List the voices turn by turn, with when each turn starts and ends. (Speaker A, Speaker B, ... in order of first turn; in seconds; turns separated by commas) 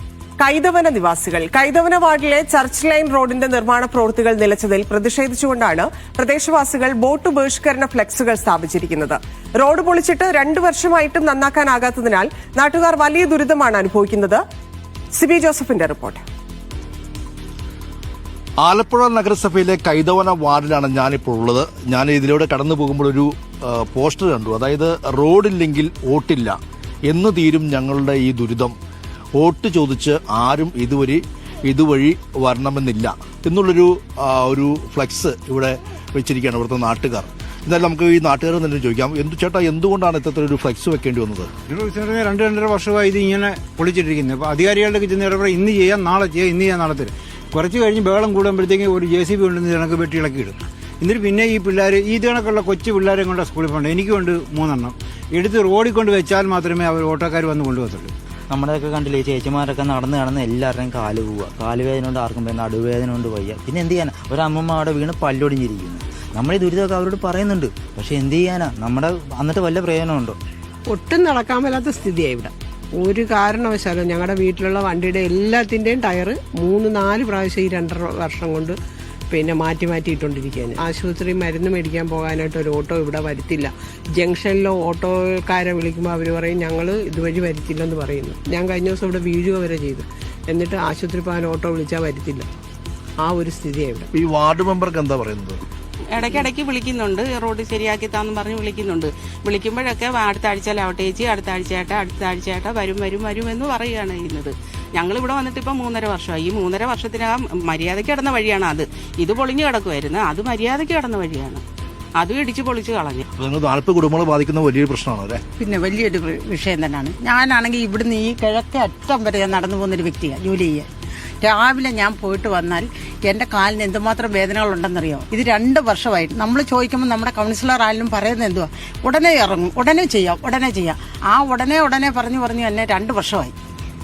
Speaker A: 0.4-14.4, Speaker A: 15.1-16.2, Speaker B: 18.6-26.6, Speaker B: 27.1-28.7, Speaker B: 29.4-41.5, Speaker C: 41.7-58.1, Speaker D: 58.5-70.4, Speaker E: 70.9-78.8, Speaker E: 79.3-92.5, Speaker E: 93.2-94.1, Speaker B: 94.1-95.6, Speaker F: 96.1-111.6, Speaker F: 112.2-113.2, Speaker B: 113.4-115.4, Speaker G: 115.6-120.9, Speaker G: 121.4-133.5